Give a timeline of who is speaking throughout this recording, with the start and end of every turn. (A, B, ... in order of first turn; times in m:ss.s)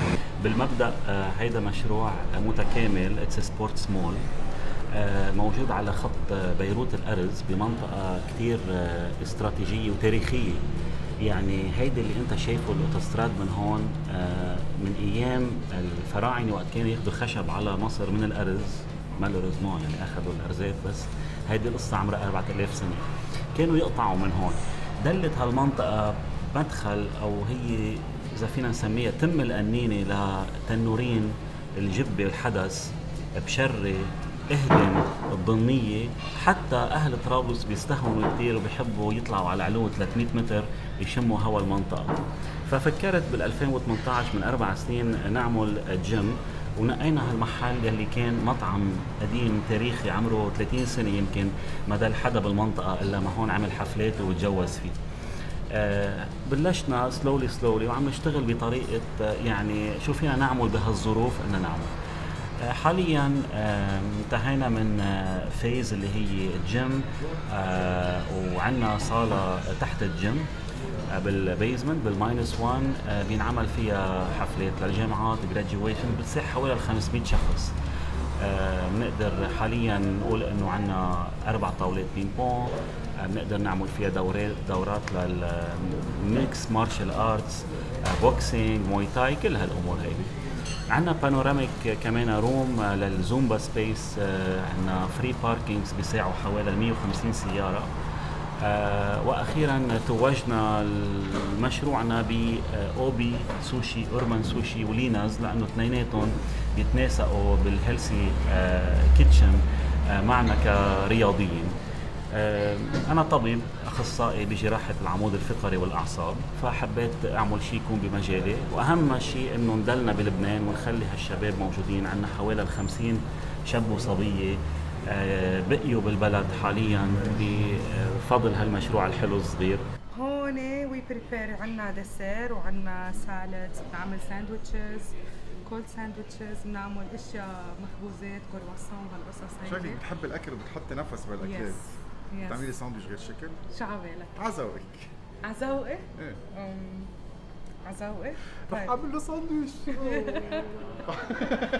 0:00.4-0:04.2 A
0:05.0-0:10.6 A
0:11.3-0:23.0 A
0:23.6-0:55.0 A
0:55.8-1:01.9 A
1:02.8-1:07.0 A
1:07.6-1:10.4 A
1:11.1-1:17.7 A
1:18.4-1:30.2 A
1:30.9-1:37.9 A
1:38.6-1:49.6 A
1:50.2-1:51.7 A
1:52.4-2:04.6 A
2:05.1-2:09.8 A
2:10.2-2:15.1 B
2:15.6-2:20.0 B
2:19.6-2:21.8 C
2:21.4-2:22.7 B
2:22.4-2:23.6 C
2:23.7-2:24.3 B
2:24.4-2:25.1 C
2:25.4-2:27.1 B
2:27.8-2:29.0 B
2:28.7-2:30.3 C
2:29.9-2:30.7 B